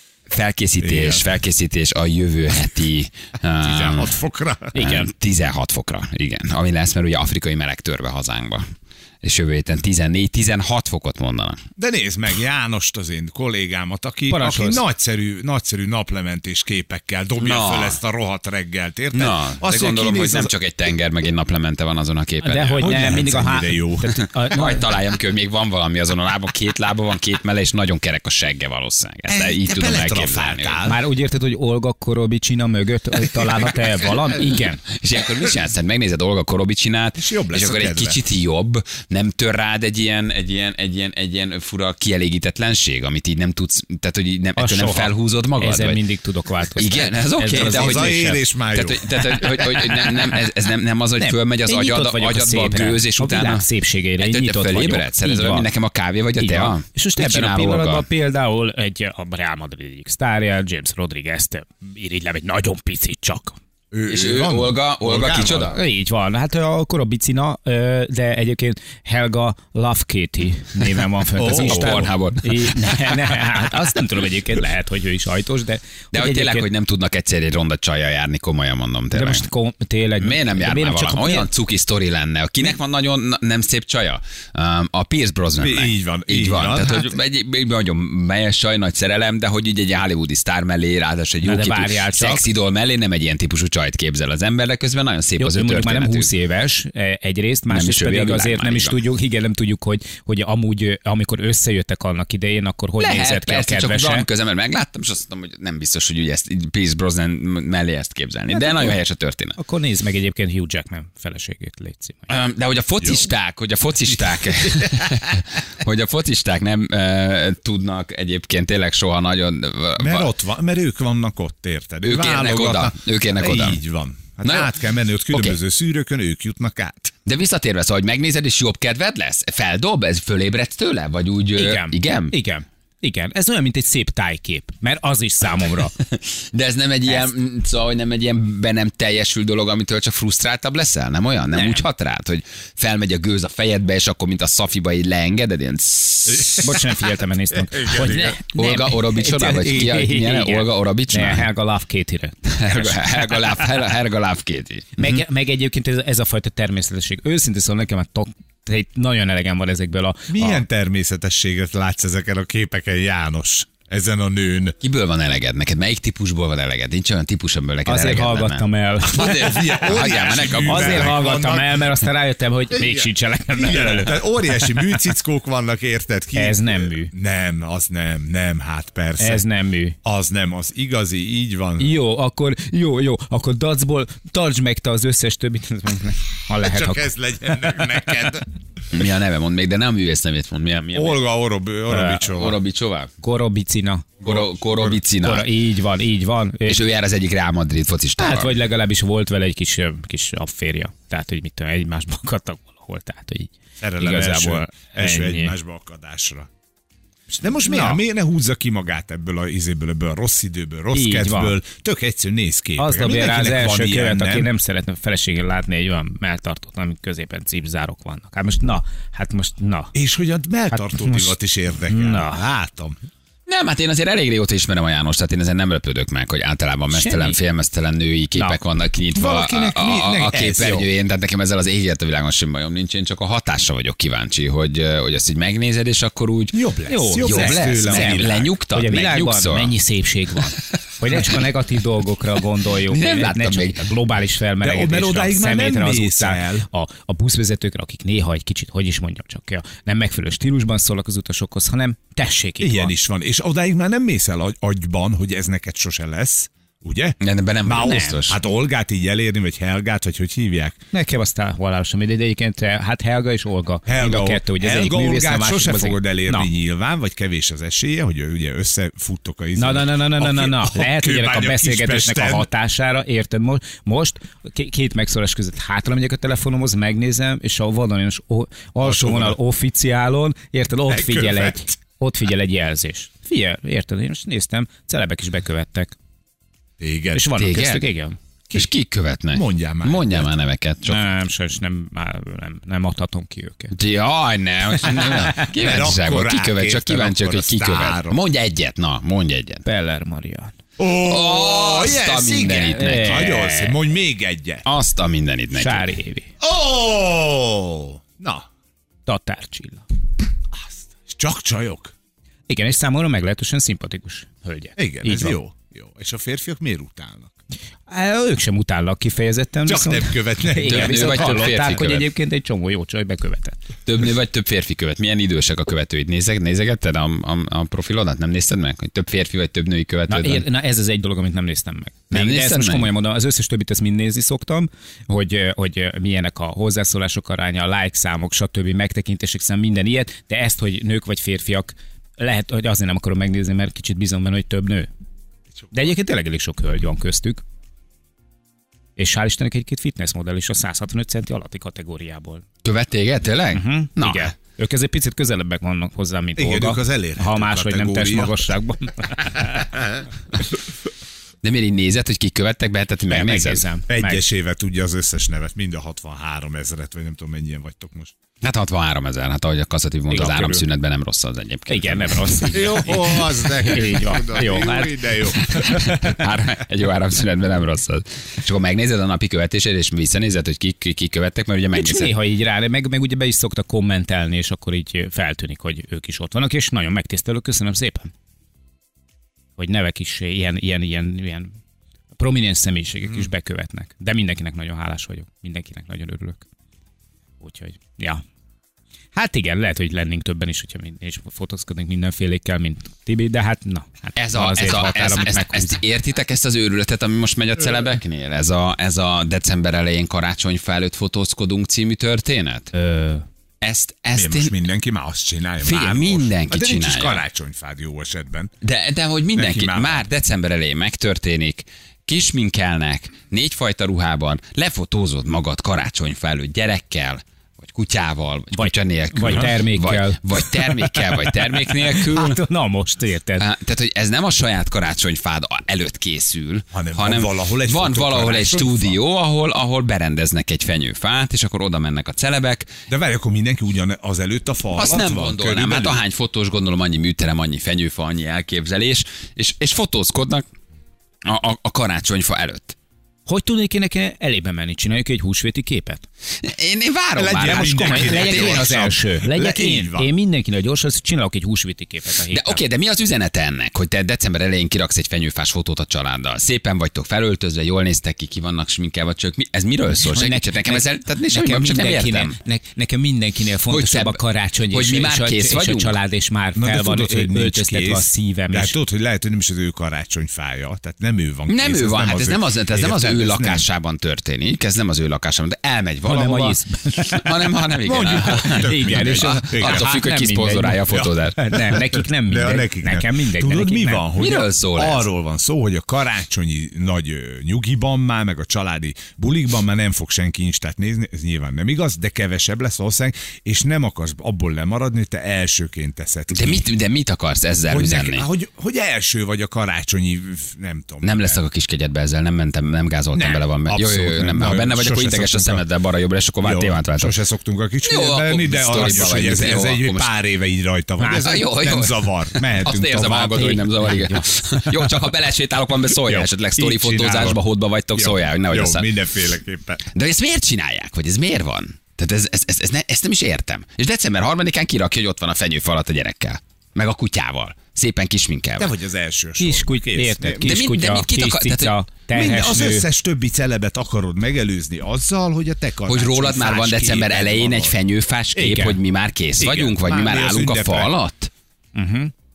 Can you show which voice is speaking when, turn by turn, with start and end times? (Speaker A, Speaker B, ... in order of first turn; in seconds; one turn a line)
Speaker A: 0.3-4.2
Speaker B: 0.8-1.2
Speaker B: 3.6-4.8
Speaker C: 4.8-5.1
Speaker A: 4.8-8.7
Speaker A: 9.2-11.6
Speaker B: 11.8-20.5
Speaker C: 14.3-14.8
Speaker A: 17.4-18.0
Speaker A: 19.1-23.2
Speaker C: 22.4-24.9
Speaker B: 22.8-24.1
Speaker A: 24.5-30.8
Speaker B: 29.3-31.0
Speaker C: 30.9-34.8
Speaker A: 34.9-46.0
Speaker B: 37.2-38.2
Speaker C: 44.6-48.4
Speaker A: 46.8-53.7
Speaker B: 47.6-49.6
Speaker C: 51.2-55.7
Speaker A: 54.2-58.0
Speaker C: 56.4-63.6
Speaker B: 63.9-65.7
Speaker A: 64.1-65.8
Speaker C: 65.7-76.7
Speaker B: 71.4-72.0
Speaker A: 71.4-73.1
Speaker A: 76.1-79.5
Speaker C: 79.1-81.5
Speaker A: 80.2-96.3
Speaker B: 85.6-87.1
Speaker C: 91.4-92.4
Speaker C: 95.4-104.2
Speaker A: 97.7-99.0
Speaker A: 103.0-109.6
Speaker C: 109.6-112.3
Speaker A: 112.3-120.3
Speaker B: 114.7-115.3
Speaker B: 120.0-127.1
Speaker A: 122.0-123.8
Speaker A: 124.4-124.7
Speaker A: 127.3-132.3
Speaker C: 131.6-136.0
Speaker A: 136.4-146.7
Speaker C: 141.5-141.8
Speaker C: 146.6-153.5
Speaker B: 147.7-148.3
Speaker A: 147.9-151.5
Speaker A: 152.6-155.2
Speaker C: 155.0-160.6
Speaker B: 160.3-164.8
Speaker A: 164.8-171.2
Speaker C: 167.9-169.8
Speaker B: 169.2-171.9
Speaker C: 170.7-174.8
Speaker B: 173.5-179.4
Speaker C: 176.3-177.1
Speaker C: 179.2-180.0
Speaker B: 180.0-181.9
Speaker C: 181.8-187.1
Speaker B: 186.6-188.5
Speaker A: 188.9-191.2
Speaker B: 190.9-192.6
Speaker C: 191.9-192.2
Speaker A: 192.3-193.1
Speaker C: 193.2-194.1
Speaker B: 194.2-195.0
Speaker A: 194.2-195.5
Speaker C: 195.2-196.8
Speaker A: 196.7-198.6
Speaker C: 198.2-205.5
Speaker B: 203.8-206.5
Speaker B: 207.3-214.5
Speaker C: 207.7-208.0
Speaker C: 210.9-211.6
Speaker C: 212.8-219.9
Speaker B: 219.9-223.0
Speaker C: 220.7-221.4
Speaker C: 221.9-222.4
Speaker A: 223.5-236.6
Speaker C: 226.9-227.4
Speaker B: 229.2-230.9
Speaker B: 236.5-238.5
Speaker C: 236.9-252.9
Speaker A: 237.2-239.7
Speaker A: 242.9-243.9
Speaker B: 244.6-246.7
Speaker B: 252.6-260.8
Speaker A: 257.2-258.4
Speaker C: 260.9-266.5
Speaker B: 263.9-272.5
Speaker C: 269.6-286.0
Speaker B: 278.8-279.4
Speaker B: 280.9-281.7
Speaker B: 286.8-287.3
Speaker C: 287.1-288.2
Speaker A: 287.4-287.8
Speaker A: 288.5-291.1
Speaker B: 289.3-290.3
Speaker C: 290.9-293.8
Speaker A: 293.7-299.6
Speaker B: 294.9-298.2
Speaker C: 294.9-295.5
Speaker C: 299.6-300.5
Speaker B: 300.8-304.6
Speaker A: 301.0-303.4
Speaker C: 302.8-303.8
Speaker A: 304.6-305.9
Speaker C: 305.6-306.3
Speaker B: 306.4-308.5
Speaker C: 309.1-309.9
Speaker B: 310.5-311.9
Speaker C: 312.5-315.4
Speaker B: 314.8-317.4
Speaker C: 317.9-323.6
Speaker B: 319.7-321.4
Speaker A: 320.6-322.1
Speaker A: 323.9-330.4
Speaker C: 330.1-344.9
Speaker A: 332.1-332.9
Speaker C: 345.7-347.4
Speaker C: 349.0-352.4
Speaker A: 352.6-354.3
Speaker C: 353.5-359.7
Speaker B: 356.4-358.5
Speaker A: 361.4-363.6
Speaker C: 363.1-364.2
Speaker B: 363.9-368.1
Speaker A: 368.4-373.0
Speaker C: 370.1-370.6
Speaker C: 371.7-376.2
Speaker B: 372.5-376.0
Speaker A: 375.5-382.1
Speaker C: 381.8-388.1
Speaker C: 389.6-391.6
Speaker C: 392.2-396.4
Speaker C: 397.4-398.2
Speaker C: 399.1-405.8
Speaker A: 404.2-412.7
Speaker C: 412.7-413.3
Speaker A: 413.6-414.5
Speaker B: 414.1-418.5
Speaker A: 415.6-417.2
Speaker A: 418.6-432.4
Speaker B: 419.4-420.0
Speaker C: 428.5-433.5
Speaker A: 433.4-442.7
Speaker B: 436.7-439.0
Speaker B: 442.9-446.0
Speaker A: 444.8-450.4
Speaker A: 451.2-452.8
Speaker C: 453.3-456.1
Speaker A: 456.4-458.8
Speaker B: 457.2-460.1
Speaker C: 457.4-462.6
Speaker A: 462.3-472.4
Speaker C: 470.1-478.8
Speaker A: 473.7-476.0
Speaker B: 476.6-483.6
Speaker A: 481.5-491.4
Speaker C: 486.0-487.2
Speaker B: 487.8-489.9
Speaker C: 488.4-494.1
Speaker B: 490.9-506.6
Speaker A: 494.2-495.1
Speaker A: 506.3-508.2
Speaker B: 507.7-511.4
Speaker A: 511.0-517.1
Speaker B: 513.1-515.6
Speaker B: 516.4-523.6
Speaker A: 517.8-520.1
Speaker C: 521.0-521.4
Speaker A: 521.1-528.9
Speaker C: 523.4-524.9
Speaker B: 526.1-527.4
Speaker B: 528.0-529.9
Speaker A: 529.9-538.7
Speaker B: 538.6-540.5
Speaker C: 539.4-542.9
Speaker A: 540.4-541.8
Speaker B: 542.1-547.8
Speaker A: 545.9-551.3
Speaker B: 548.4-548.7
Speaker C: 548.4-548.7
Speaker B: 549.4-550.9
Speaker C: 551.8-552.1